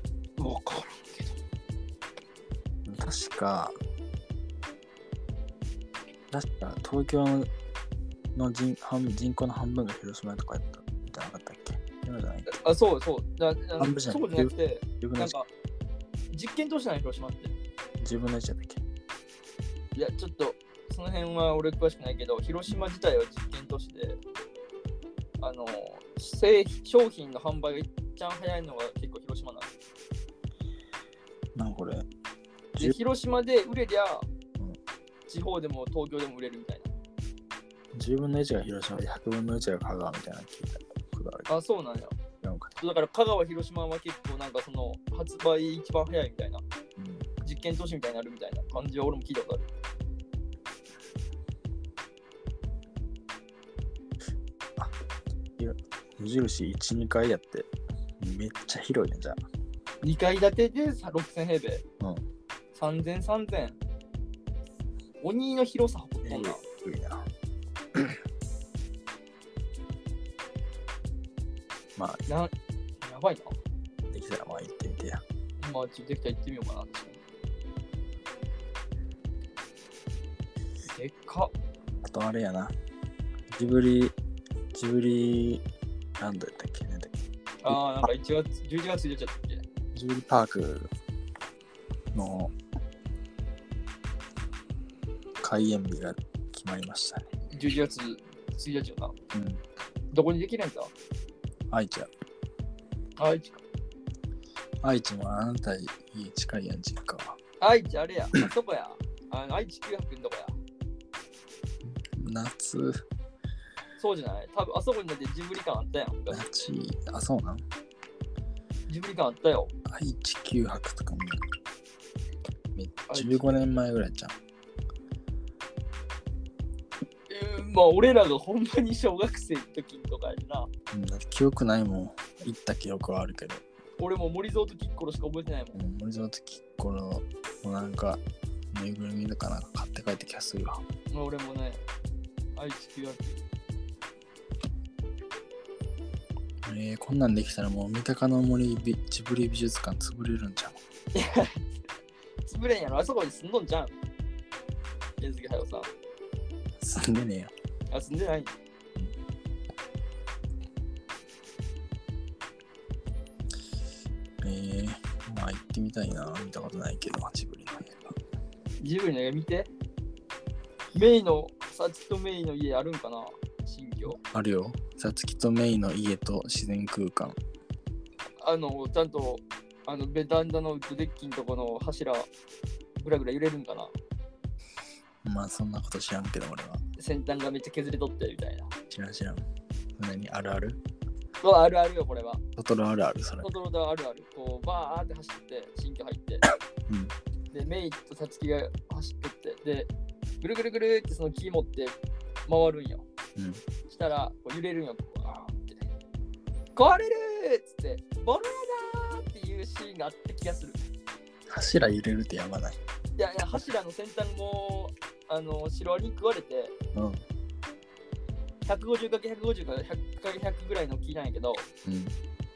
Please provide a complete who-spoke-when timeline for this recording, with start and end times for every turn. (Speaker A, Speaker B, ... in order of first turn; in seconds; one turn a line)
Speaker A: 0.4-1.4
Speaker B: 2.8-3.7
Speaker B: 6.3-7.5
Speaker B: 8.3-12.5
Speaker A: 12.5-15.5
Speaker B: 13.8-15.3
Speaker A: 16.3-17.5
Speaker B: 18.0-18.8
Speaker A: 19.9-24.2
Speaker A: 25.4-29.7
Speaker B: 31.5-32.1
Speaker A: 32.8-34.3
Speaker A: 35.3-36.9
Speaker B: 37.9-41.5
Speaker A: 41.5-42.2
Speaker B: 42.4-42.7
Speaker A: 42.8-46.6
Speaker B: 47.0-47.3
Speaker A: 47.4-49.7
Speaker B: 55.6-57.7
Speaker B: 58.2-59.4
Speaker A: 60.0-61.8
Speaker B: 62.0-62.2
Speaker A: 62.7-63.8
Speaker A: 65.2-66.6
Speaker B: 66.2-67.3
Speaker B: 72.0-72.2
Speaker A: 73.0-73.5
Speaker B: 74.1-75.2
Speaker A: 75.6-77.2
Speaker A: 80.9-81.5
Speaker B: 82.0-82.7
Speaker B: 83.5-84.1
Speaker B: 84.7-85.6
Speaker B: 86.2-88.1
Speaker A: 87.6-89.6
Speaker B: 89.9-90.9
Speaker B: 92.1-92.5
Speaker B: 95.4-97.2
Speaker A: 97.5-99.1
Speaker B: 99.3-99.6
Speaker A: 100.1-100.9
Speaker B: 101.7-102.1
Speaker A: 103.2-103.6
Speaker B: 104.8-107.4
Speaker A: 107.6-110.6
Speaker B: 111.8-113.0
Speaker A: 114.0-116.4
Speaker B: 116.3-117.6
Speaker A: 118.9-119.7
Speaker B: 119.9-121.4
Speaker B: 122.7-124.3
Speaker A: 123.1-123.7
Speaker A: 127.3-130.7
Speaker B: 130.9-133.6
Speaker A: 134.0-135.8
Speaker B: 135.7-140.8
Speaker A: 141.1-141.8
Speaker A: 142.6-143.4
Speaker B: 146.7-150.8
Speaker A: 151.1-151.6
Speaker A: 152.4-153.9
Speaker A: 155.2-155.9
Speaker B: 156.8-157.5
Speaker A: 157.9-158.5
Speaker B: 164.4-168.2
Speaker A: 168.8-169.7
Speaker A: 170.9-174.2
Speaker B: 174.2-177.4
Speaker A: 178.4-182.3
Speaker A: 183.0-183.9
Speaker B: 185.2-186.8
Speaker A: 187.0-188.7
Speaker B: 188.9-189.4
Speaker B: 190.0-190.8
Speaker A: 191.4-192.4
Speaker B: 192.6-193.5
Speaker A: 193.4-196.4
Speaker B: 196.9-197.1
Speaker A: 197.5-199.9
Speaker A: 200.4-203.0
Speaker B: 203.3-203.6
Speaker A: 203.9-205.8
Speaker A: 206.7-210.8
Speaker B: 211.5-212.8
Speaker A: 213.2-216.7
Speaker B: 216.9-217.2
Speaker A: 218.7-221.7
Speaker B: 221.8-222.2